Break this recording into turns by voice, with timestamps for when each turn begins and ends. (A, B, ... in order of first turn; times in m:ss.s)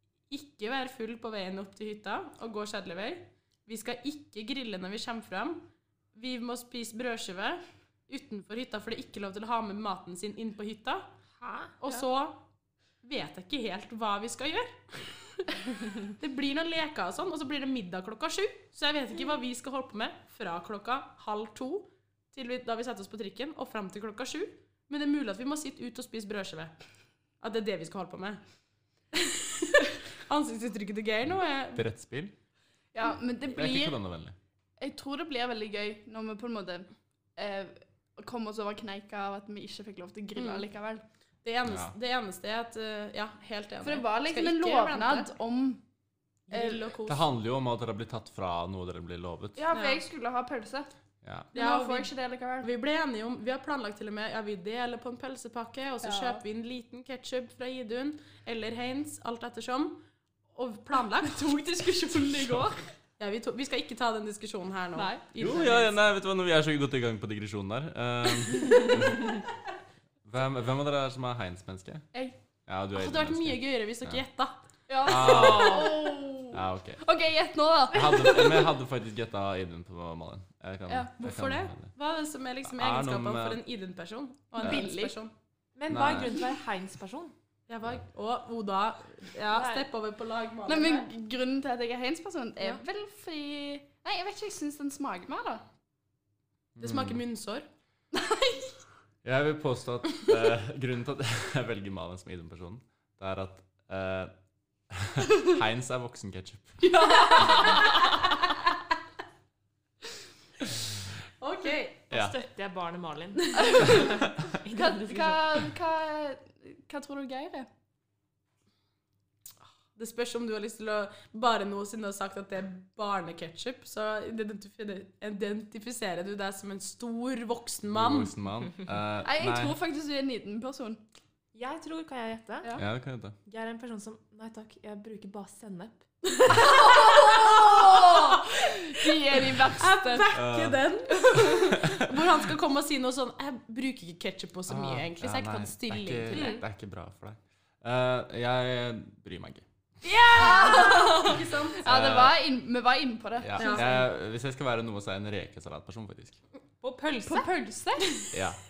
0:00.3-0:11.1 A
0:11.4-0:11.8 B
0:11.8-0:12.4 A
0:13.0-0:26.7 A
0:27.4-0:28.4 A
0:29.2-0:31.8 A
0:31.7-0:32.3 C
0:32.9-0:34.0 D
0:33.5-0:34.4 C
0:34.8-0:41.0 D
0:40.4-0:40.7 A
0:41.4-0:45.3 A
0:41.6-0:41.9 C
0:43.8-0:45.8 D
0:46.5-0:47.2 A
0:46.5-0:46.8 D
0:47.0-0:49.6 C
0:49.6-0:50.9 D
0:49.7-0:50.0 A
0:51.2-0:51.5 C
0:51.5-0:52.7 D
0:51.5-1:00.0 A
0:56.0-0:56.4 D
1:00.5-1:01.6 A
1:01.3-1:02.9 D
1:03.2-1:06.0 A
1:04.9-1:05.2 D
1:05.4-1:09.4 C
1:10.2-1:12.1 C
1:12.1-1:12.4 D
1:12.7-1:14.2 C
1:12.9-1:14.6 A
1:14.9-1:18.7 D
1:15.0-1:17.0 C
1:17.9-1:21.9 C
1:21.2-1:25.3 A
1:22.6-1:23.6 C
1:24.6-1:25.1 D
1:25.8-1:27.3 B
1:25.9-1:26.4 C
1:27.7-1:31.1 A
1:29.5-1:29.8 B
1:30.6-1:35.6 D
1:36.8-1:37.2 C
1:36.8-1:37.7 A
1:38.1-1:38.8 D
1:39.2-1:44.3 C
1:44.9-1:47.7 C
1:46.8-1:48.4 D
1:51.4-1:52.0 A
1:52.0-1:55.6 B
1:52.1-1:52.4 C
1:53.6-1:57.7 D
2:00.0-2:08.3 A
2:07.9-2:09.7 C
2:09.2-2:11.0 D
2:11.5-2:12.7 B
2:12.8-2:13.3 C
2:13.4-2:16.8 B
2:16.5-2:20.3 D
2:16.5-2:26.6 A
2:20.3-2:22.3 C
2:21.2-2:21.8 D
2:24.7-2:29.6 C
2:26.3-2:26.6 B
2:30.1-2:31.8 A
2:30.2-2:34.0 D
2:30.5-2:31.1 B
2:31.8-2:32.4 C
2:33.4-2:36.4 C
2:33.6-2:34.0 A
2:36.8-2:37.5 A
2:37.2-2:38.4 D
2:38.0-2:38.3 A
2:38.3-2:38.6 C